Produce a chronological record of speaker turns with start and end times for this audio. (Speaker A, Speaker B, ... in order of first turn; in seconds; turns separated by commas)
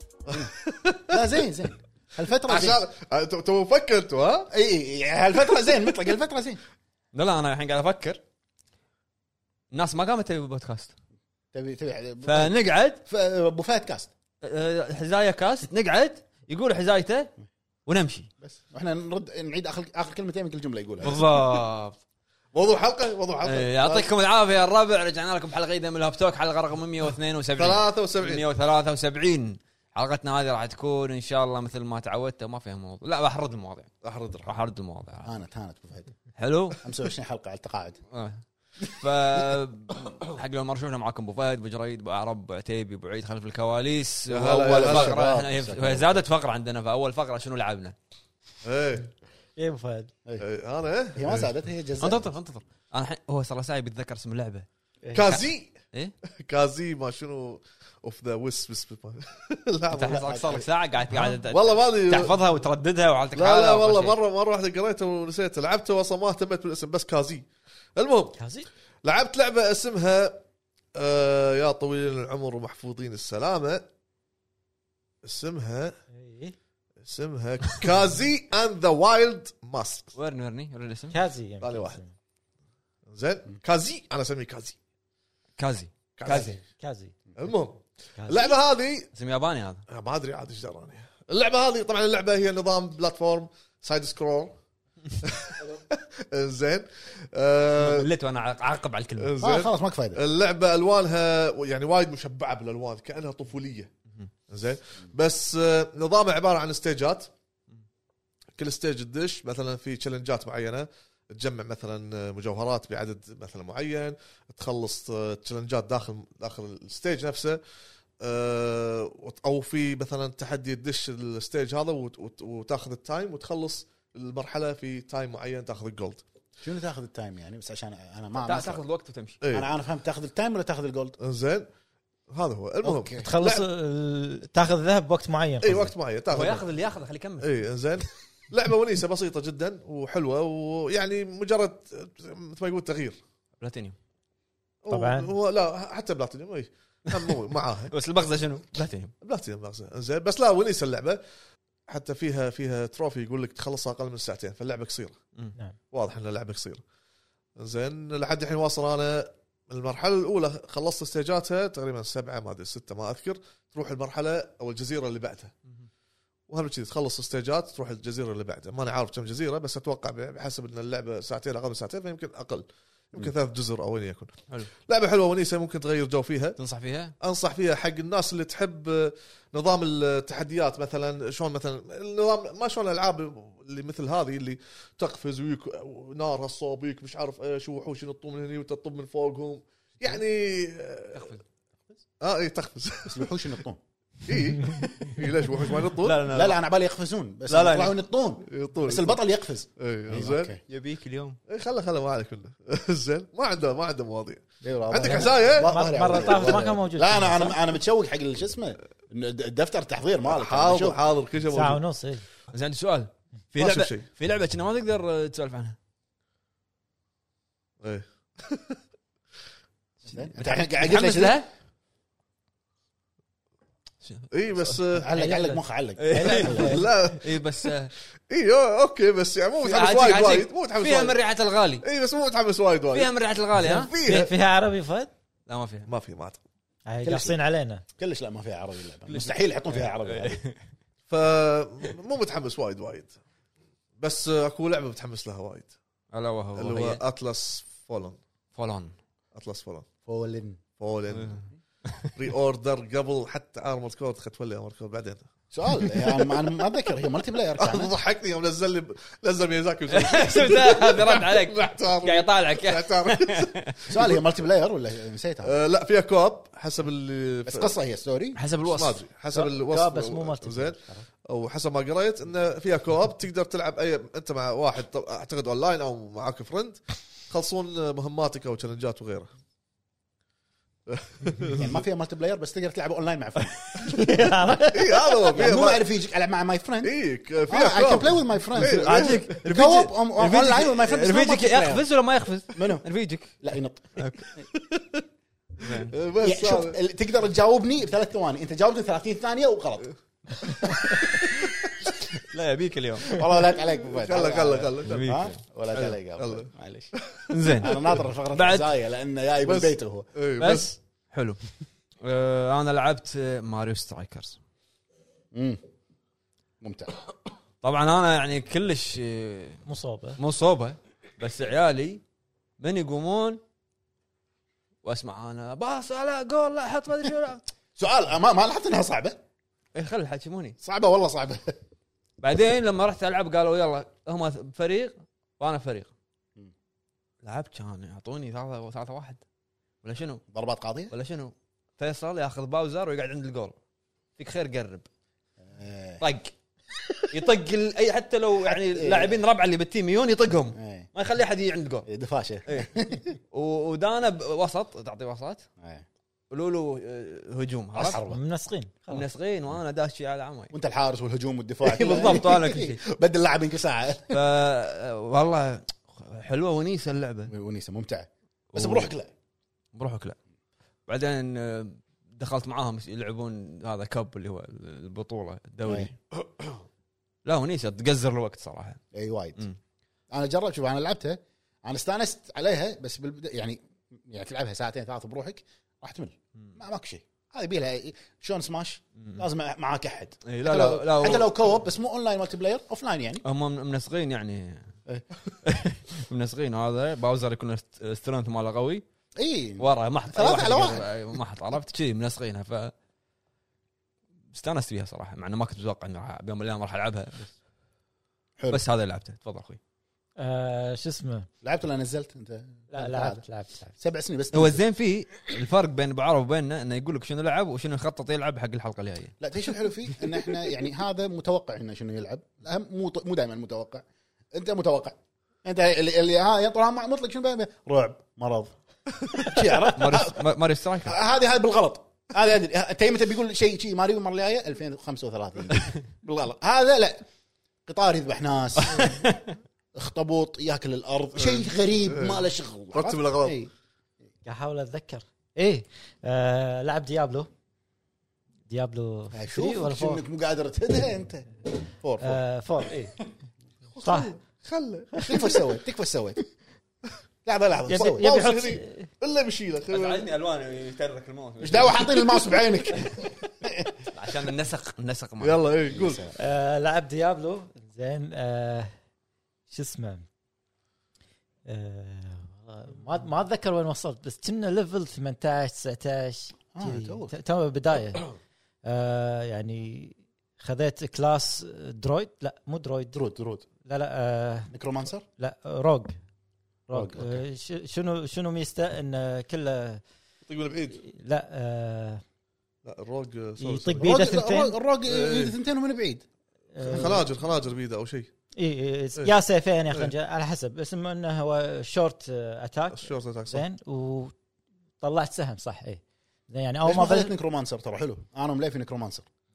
Speaker A: 0.3-1.2, Speaker B: 1.1-2.8, Speaker A: 2.5-4.5, Speaker B: 4.5-6.6, Speaker C: 7.1-8.2, Speaker C: 9.7-10.9, Speaker B: 11.5-14.1, Speaker C: 12.2-13.0, Speaker C: 14.4-17.3, Speaker C: 17.9-18.3, Speaker B: 18.4-21.2, Speaker C: 21.0-22.0, Speaker A: 22.5-24.0, Speaker C: 23.4-33.9, Speaker A: 27.6-28.4, Speaker A: 34.0-34.5, Speaker C: 34.4-35.3, Speaker B: 35.2-36.1, Speaker C: 36.3-36.8, Speaker B: 36.8-38.0, Speaker C: 38.1-47.9, Speaker A: 44.3-45.2, Speaker B: 44.5-46.2, Speaker A: 48.6-49.1, Speaker D: 49.6-50.1, Speaker A: 50.4-51.5, Speaker B: 51.1-52.3, Speaker C: 52.0-54.6, Speaker A: 55.1-55.7, Speaker C: 55.2-56.1, Speaker A: 56.4-60.6, Speaker C: 59.9-64.2, Speaker A: 61.5-62.4, Speaker A: 63.3-68.4, Speaker D: 68.4-68.7, Speaker A: 69.0-70.4, Speaker A: 70.9-73.9, Speaker A: 75.2-75.9, Speaker D: 76.1-76.5, Speaker A: 77.0-80.1, Speaker C: 80.1-81.2, Speaker D: 81.1-82.1, Speaker A: 81.6-82.0, Speaker A: 83.1-84.8, Speaker C: 85.6-86.5, Speaker A: 86.2-86.6, Speaker D: 86.3-87.1, Speaker A: 87.4-89.1, Speaker C: 89.1-89.8, Speaker A: 89.9-94.6, Speaker A: 95.2-98.1, Speaker C: 97.8-99.3, Speaker A: 99.2-103.9, Speaker B: 99.4-100.2, Speaker A: 104.5-107.3, Speaker A: 108.6-117.6, Speaker A: 118.2-126.2, Speaker B: 126.6-128.8, Speaker C: 128.4-129.4, Speaker A: 129.4-129.7, Speaker B: 129.5-131.2, Speaker A: 131.2-131.7, Speaker A: 132.3-133.6, Speaker B: 132.8-133.3, Speaker D: 133.2-135.9, Speaker A: 135.6-136.7, Speaker C: 136.3-137.5, Speaker A: 137.4-143.2, Speaker C: 143.6-143.9, Speaker A: 144.8-147.9, Speaker D: 144.9-145.3, Speaker C: 147.9-149.1, Speaker A: 149.2-151.2, Speaker A: 151.9-155.2, Speaker A: 155.9-156.8, Speaker A: 157.6-165.5, Speaker A: 166.5-174.3, Speaker A: 174.8-176.6, Speaker C: 176.6-177.1, Speaker A: 177.2-191.3, Speaker C: 191.1-191.4, Speaker A: 192.2-193.6, Speaker B: 193.1-193.8, Speaker A: 194.2-196.3, Speaker C: 195.9-196.6, Speaker B: 196.3-200.6, Speaker C: 197.5-198.0, Speaker A: 198.4-199.2, Speaker A: 199.8-200.6, Speaker C: 200.7-201.4, Speaker A: 201.5-206.6, Speaker B: 204.6-211.0, Speaker D: 205.1-207.6, Speaker A: 210.3-211.8, Speaker D: 211.5-212.2, Speaker C: 212.5-215.8, Speaker A: 213.6-214.0, Speaker A: 217.8-218.8, Speaker B: 220.0-221.4, Speaker C: 220.2-221.5, Speaker C: 224.0-224.8, Speaker A: 224.3-225.1, Speaker B: 224.9-226.7, Speaker D: 225.2-225.6, Speaker C: 226.0-227.9, Speaker D: 226.1-226.8, Speaker A: 226.3-227.7, Speaker A: 228.3-231.2, Speaker C: 229.6-231.8, Speaker A: 231.8-234.3, Speaker C: 232.9-233.9, Speaker D: 233.9-235.1, Speaker C: 235.5-235.9, Speaker A: 235.9-236.4, Speaker D: 236.9-237.8, Speaker B: 237.0-237.3, Speaker B: 238.0-240.4, Speaker C: 239.1-240.6, Speaker A: 241.1-243.2, Speaker A: 244.0-245.7, Speaker C: 246.1-247.0, Speaker A: 246.6-248.2, Speaker C: 248.5-248.9, Speaker A: 249.3-249.8, Speaker B: 250.1-250.6, Speaker A: 250.8-251.5, Speaker C: 251.1-252.1, Speaker A: 252.1-255.3, Speaker B: 255.5-257.9, Speaker A: 256.0-256.2, Speaker A: 257.6-264.2, Speaker C: 259.9-263.8, Speaker B: 263.9-265.6, Speaker A: 265.4-267.7, Speaker B: 267.4-268.4, Speaker C: 268.4-268.9, Speaker D: 268.6-271.1, Speaker A: 268.6-279.3, Speaker A: 280.9-281.8, Speaker B: 281.6-284.0, Speaker D: 283.7-285.3, Speaker A: 284.6-285.9, Speaker B: 285.3-286.9, Speaker A: 286.8-289.3, Speaker B: 287.4-291.9, Speaker C: 288.5-293.4, Speaker B: 292.5-292.9, Speaker B: 293.4-294.4, Speaker C: 294.0-294.4, Speaker C: 295.6-295.9, Speaker A: 295.6-296.8, Speaker B: 296.2-299.9, Speaker B: 300.6-300.9, Speaker C: 302.1-303.3, Speaker B: 303.1-306.9, Speaker A: 303.8-305.1, Speaker C: 304.8-306.0, Speaker A: 306.2-306.5, Speaker A: 307.2-307.8, Speaker C: 307.3-308.7, Speaker B: 307.6-310.1, Speaker A: 309.4-310.7, Speaker C: 310.4-311.4, Speaker C: 312.0-314.4, Speaker B: 315.3-315.6, Speaker B: 316.6-316.9, Speaker C: 317.6-319.6, Speaker D: 319.6-320.2, Speaker C: 320.2-322.0, Speaker C: 322.6-323.4, Speaker C: 324.8-327.4, Speaker B: 327.8-329.2, Speaker C: 329.7-330.6, Speaker B: 330.6-331.5, Speaker C: 332.2-335.9, Speaker C: 337.2-339.2, Speaker C: 339.8-340.2, Speaker B: 340.3-340.9, Speaker C: 340.9-343.6, Speaker C: 344.2-344.9, Speaker B: 345.4-346.0, Speaker C: 346.0-346.3, Speaker C: 346.9-351.9, Speaker B: 348.4-349.2, Speaker B: 350.5-350.9, Speaker B: 351.9-353.2, Speaker C: 352.5-352.7, Speaker C: 353.3-355.4, Speaker B: 355.6-355.9, Speaker C: 356.3-358.0, Speaker B: 357.7-358.2, Speaker D: 358.1-359.0, Speaker C: 358.9-360.5, Speaker B: 360.5-364.2, Speaker C: 361.6-362.8, Speaker C: 364.1-367.3, Speaker B: 367.3-369.1, Speaker C: 368.5-368.9, Speaker C: 369.7-370.1, Speaker C: 370.9-375.9, Speaker B: 375.6-375.9, Speaker C: 377.2-378.8, Speaker B: 378.9-379.4, Speaker B: 380.1-393.2, Speaker C: 389.0-389.2, Speaker C: 390.2-391.3, Speaker C: 393.2-394.7, Speaker C: 395.4-398.8, Speaker B: 399.2-400.9, Speaker C: 399.6-402.7, Speaker C: 404.3-407.3, Speaker C: 408.5-409.6, Speaker D: 410.2-411.3, Speaker B: 411.4-413.2, Speaker D: 412.7-413.7, Speaker B: 413.8-414.6, Speaker C: 414.3-419.2, Speaker B: 419.2-428.5, Speaker B: 429.2-430.2, Speaker C: 429.7-430.9, Speaker B: 430.8-437.0, Speaker B: 437.6-439.0, Speaker B: 439.7-443.5, Speaker A: 441.1-443.4, Speaker D: 444.2-447.3, Speaker D: 448.5-450.0, Speaker B: 449.1-451.3, Speaker B: 451.8-452.2, Speaker D: 452.0-452.9, Speaker A: 453.7-455.1, Speaker D: 453.8-454.1, Speaker B: 455.1-456.2, Speaker B: 457.2-458.1, Speaker D: 457.7-458.9, Speaker A: 457.7-460.1, Speaker C: 459.7-462.9, Speaker B: 461.4-463.8, Speaker C: 463.9-465.4, Speaker A: 465.2-466.0, Speaker B: 465.7-466.1, Speaker D: 466.1-468.7, Speaker D: 469.5-470.1, Speaker D: 471.4-478.1, Speaker B: 476.5-477.1, Speaker D: 478.6-483.0, Speaker B: 482.9-483.4, Speaker D: 483.6-484.5, Speaker B: 484.5-485.0, Speaker D: 485.2-485.9, Speaker D: 486.7-489.8, Speaker B: 486.7-487.2, Speaker A: 490.2-490.8, Speaker D: 490.8-492.0, Speaker A: 492.6-493.9, Speaker D: 493.4-494.6, Speaker B: 493.8-496.0, Speaker A: 494.9-495.4, Speaker D: 496.5-497.1, Speaker A: 496.6-498.1, Speaker B: 496.6-497.0, Speaker D: 498.4-504.1, Speaker A: 502.7-503.4, Speaker D: 504.8-507.1, Speaker B: 506.6-509.1